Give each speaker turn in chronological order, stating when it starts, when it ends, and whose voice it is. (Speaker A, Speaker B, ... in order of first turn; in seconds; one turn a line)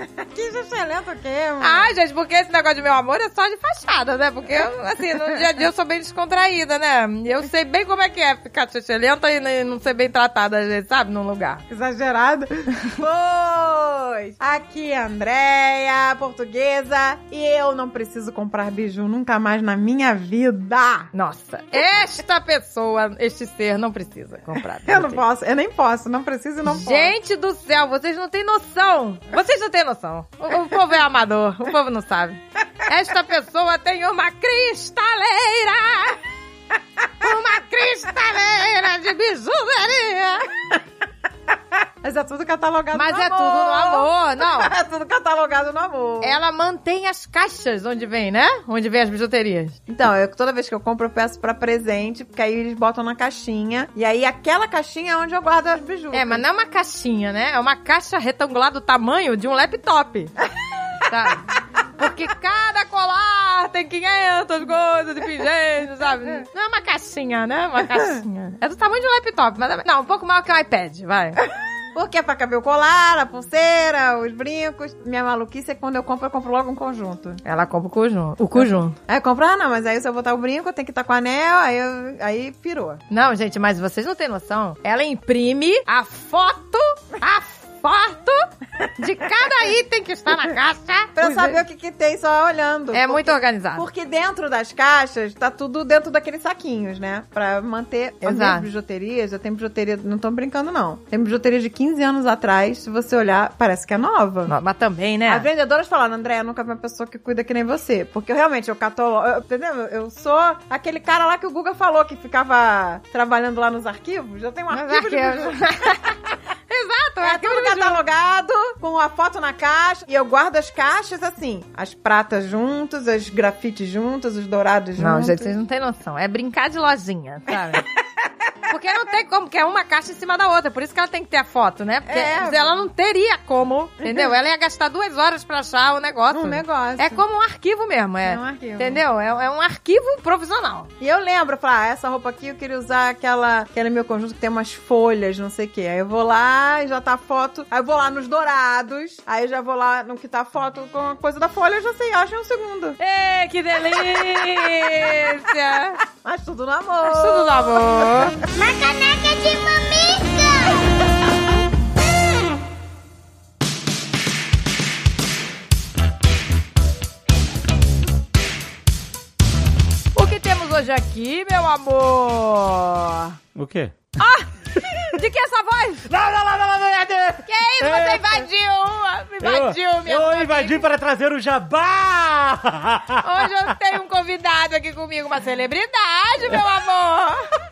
Speaker A: 0.2-1.9
Speaker B: 1.6-11.6
Speaker A: 11.7-21.1
Speaker B: 21.1-25.2
Speaker A: 24.9-27.1
Speaker B: 26.7-36.2
Speaker B: 37.2-40.5
Speaker A: 42.0-46.4
Speaker B: 42.9-44.7
Speaker B: 46.2-49.8
Speaker A: 49.9-56.4
Speaker B: 56.1-60.3
Speaker B: 61.1-61.5
Speaker B: 62.0-71.4
Speaker A: 72.0-77.4
Speaker B: 77.4-79.0
Speaker A: 78.6-83.0
Speaker B: 83.1-88.5
Speaker B: 89.0-91.6
Speaker A: 91.2-104.5
Speaker B: 92.9-93.9
Speaker B: 98.2-98.7
Speaker B: 104.5-105.5
Speaker A: 105.3-115.9
Speaker B: 114.7-116.2
Speaker B: 116.7-118.0
Speaker A: 117.2-125.5
Speaker B: 125.0-127.8
Speaker A: 127.5-127.8
Speaker B: 128.7-140.9
Speaker A: 132.1-132.8
Speaker A: 134.0-134.3
Speaker A: 136.3-137.2
Speaker A: 138.2-139.0
Speaker A: 141.0-153.0
Speaker B: 153.0-156.0
Speaker A: 153.9-155.3
Speaker A: 156.2-159.8
Speaker B: 157.1-158.4
Speaker B: 170.2-173.4
Speaker C: 173.6-174.1
Speaker B: 174.2-174.5
Speaker B: 175.1-176.1
Speaker C: 176.1-178.5
Speaker B: 177.5-180.8
Speaker C: 179.4-183.7
Speaker B: 183.2-187.4